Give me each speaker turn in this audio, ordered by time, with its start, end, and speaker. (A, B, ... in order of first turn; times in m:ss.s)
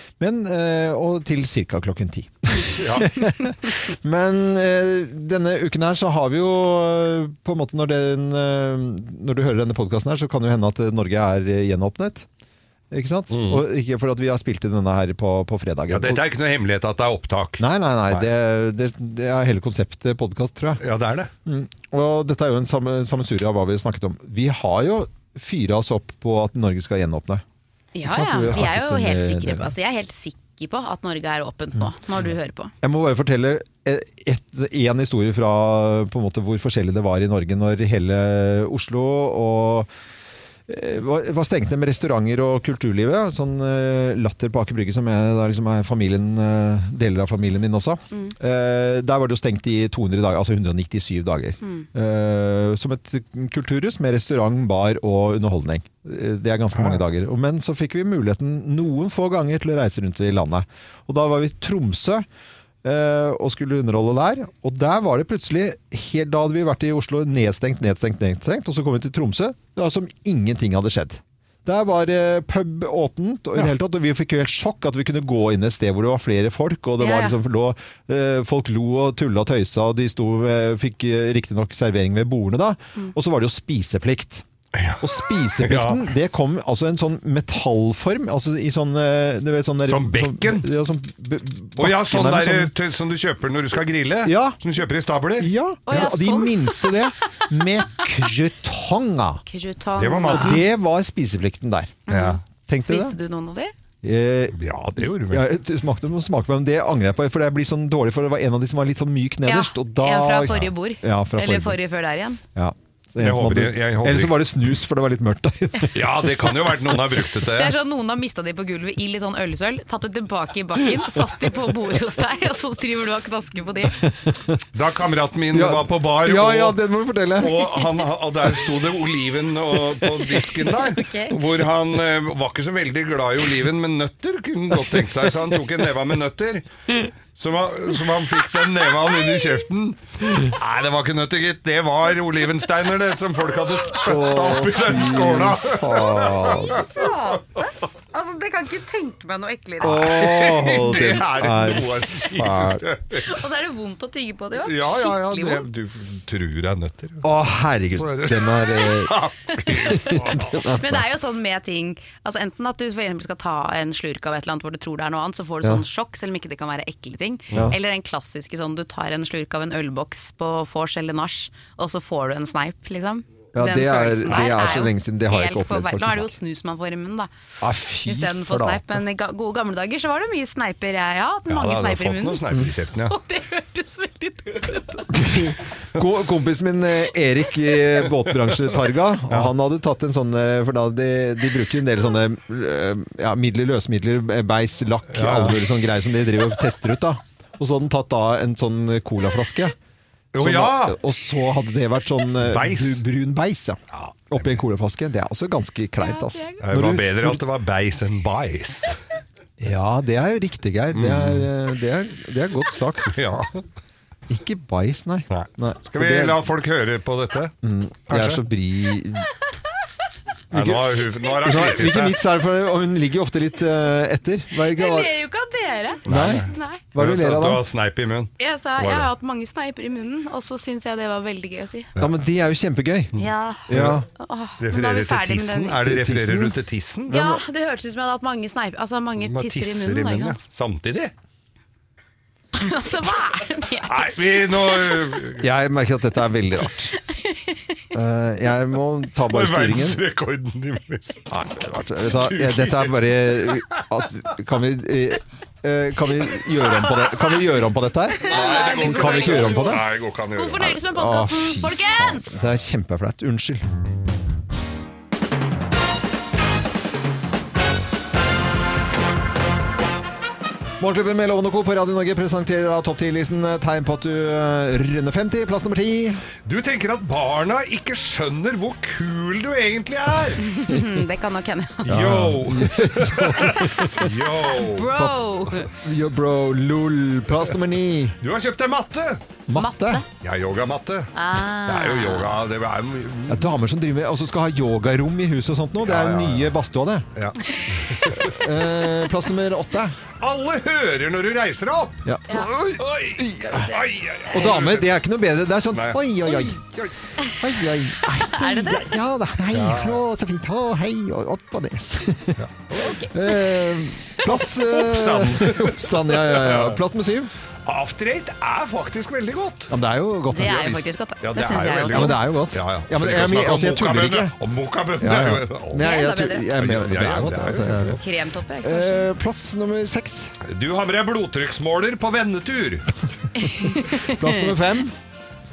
0:00.2-0:12.3 A
0:02.8-0:03.1 B
0:12.9-0:16.2 A
0:13.3-0:13.6 B
0:15.9-0:18.3 B
0:17.6-0:20.8 A
0:20.8-0:21.3 B
0:21.4-0:27.4 A
0:27.9-0:32.7 C
0:28.0-0:29.7 A
0:32.8-0:39.9 A
0:40.7-1:02.2 A
0:51.6-0:51.9 C
1:02.8-1:24.4 A
1:17.0-1:17.4 C
1:24.7-1:26.0 B
1:25.0-1:32.7 A
1:29.9-1:30.6 B
1:31.8-1:35.5 B
1:34.2-1:34.6 A
1:35.4-1:39.4 A
1:35.8-1:36.9 C
1:39.5-1:40.6 C
1:40.0-1:40.6 B
1:40.3-1:42.0 A
1:42.1-1:43.7 C
1:42.1-1:42.4 B
1:42.7-1:43.2 A
1:44.0-1:51.8 A
1:44.5-1:45.4 B
1:49.4-1:52.4 C
1:52.5-1:56.8 A
1:53.2-1:54.3 B
1:55.9-1:57.7 B
1:57.5-2:04.0 C
2:04.0-2:04.6 A
2:04.7-2:06.8 B
2:05.5-2:07.8 A
2:07.4-2:16.6 B
2:10.9-2:11.3 C
2:17.4-2:26.8 B
2:24.0-2:26.9 A
2:26.7-2:30.2 C
2:29.8-2:32.8 A
2:29.8-2:33.3 B
2:33.2-2:35.7 C
2:34.6-2:37.2 B
2:37.2-2:39.1 A
2:37.9-2:40.6 B
2:39.6-2:40.1 C
2:39.7-2:41.0 A
2:40.8-2:57.3 C
2:53.5-2:56.3 A
2:57.6-2:59.0 A
2:58.0-3:02.4 C
3:01.5-3:03.1 B
3:03.1-3:05.6 C
3:05.1-3:19.7 A
3:08.4-3:08.6 B
3:15.1-3:15.6 B
3:20.3-3:21.0 B
3:20.4-3:27.4 A
3:22.5-3:23.0 B
3:23.9-3:24.6 B
3:26.0-3:26.6 C
3:26.6-3:29.0 B
3:29.6-3:33.2 A
3:30.9-3:31.5 B
3:33.1-3:33.6 B
3:34.3-3:36.4 A
3:35.3-3:37.5 B
3:37.6-3:39.3 A
3:38.1-3:38.4 B
3:40.5-3:45.2 A
3:40.5-3:42.2 B
3:44.7-3:46.8 C
3:46.0-3:49.1 B
3:46.1-3:47.6 A
3:48.4-3:51.9 C
3:52.0-3:53.1 A
3:53.1-3:54.0 B
3:53.2-3:55.8 C
3:53.7-3:54.0 A
3:54.6-3:57.1 B
3:55.8-3:56.6 A
3:57.1-3:57.4 A
3:57.1-4:00.4 C
3:59.2-4:01.1 B
4:02.5-4:04.1 C
4:03.8-4:05.4 B
4:05.4-4:06.9 A
4:07.0-4:07.7 C
4:07.9-4:10.0 A
4:09.3-4:11.2 B
4:11.3-4:19.9 A
4:12.1-4:13.8 B
4:18.2-4:19.7 C
4:18.3-4:20.7 B
4:20.3-4:22.4 C
4:20.6-4:23.6 A
4:30.8-4:36.2 A
4:36.4-4:40.4 B
4:40.4-4:42.0 C
4:41.8-4:44.9 B
4:41.8-4:44.1 A
4:43.4-4:45.7 C
4:44.9-4:48.2 A
4:48.2-4:49.2 B
4:49.5-4:50.0 A
4:49.5-4:50.0 C
4:50.2-4:53.5 B
4:51.1-4:52.3 C
4:53.3-4:57.0 A
4:55.8-4:56.5 B
4:57.2-4:58.4 B
4:58.2-5:00.0 A
5:00.2-5:04.9 B
5:02.0-5:03.7 A
5:03.4-5:03.8 C
5:04.3-5:06.6 A
5:05.7-5:06.9 B
5:07.3-5:12.4 A
5:08.1-5:08.9 C
5:09.5-5:10.0 B
5:12.4-5:12.9 B
5:12.8-5:13.4 C
5:13.1-5:17.3 A
5:14.2-5:16.8 B
5:17.6-5:19.7 B
5:19.7-5:20.8 A
5:20.3-5:22.2 C
5:21.2-5:25.9 B
5:21.8-5:24.4 A
5:25.0-5:28.0 A
5:25.8-5:26.5 C
5:26.6-5:28.0 B
5:28.0-5:29.1 C
5:28.6-5:30.3 A
5:30.4-5:32.9 B
5:33.4-5:34.2 C
5:33.6-5:35.0 A